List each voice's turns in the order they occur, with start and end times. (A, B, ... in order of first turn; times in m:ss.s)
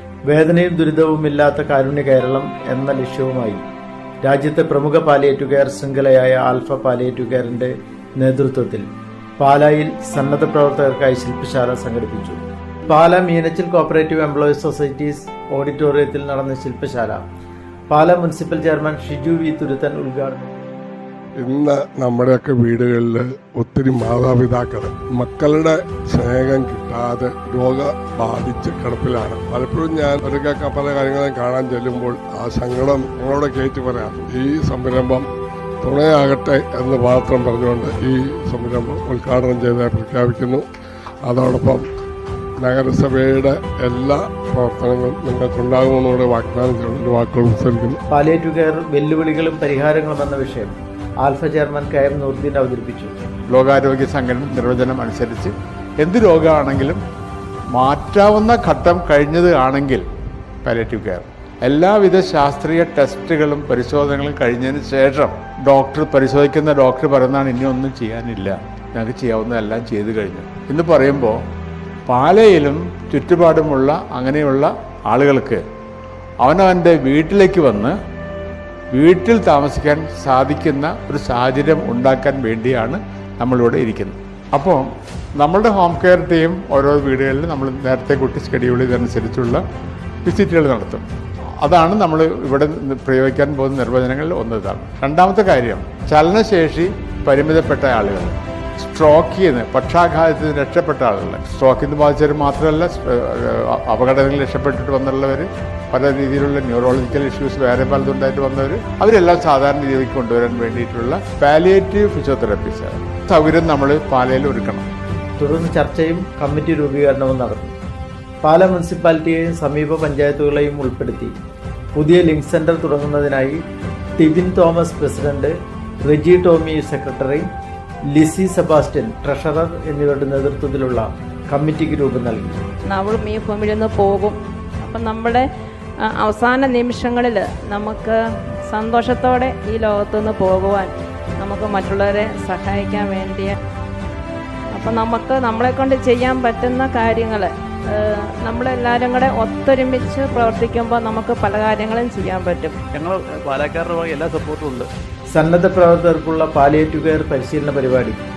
0:00.3-0:03.6 A
0:04.2-0:08.8 A
0:09.4-0:17.2 A
0:17.9-0:20.5 A
0:21.4-0:35.3 B
0:35.8-0:40.6 B
0:41.2-0:41.8 B
0:42.6-0:48.0 B
0:48.1-0:53.1 A
0:53.5-0:57.0 C
0:57.7-1:00.0 C
1:00.6-1:11.4 C
1:12.1-1:15.6 C
1:16.4-1:18.0 C
1:18.9-1:24.8 C
1:25.4-1:29.6 C
1:30.2-1:31.0 C
1:31.6-1:54.9 C
1:55.4-1:57.7 A
1:58.4-2:01.3 A
2:02.0-2:03.6 A
2:04.2-2:07.5 A
2:08.1-2:12.6 A
2:12.9-2:15.4 D
2:16.0-2:23.6 D
2:24.7-2:32.7 D
2:32.9-2:34.9 E
2:35.3-2:38.2 A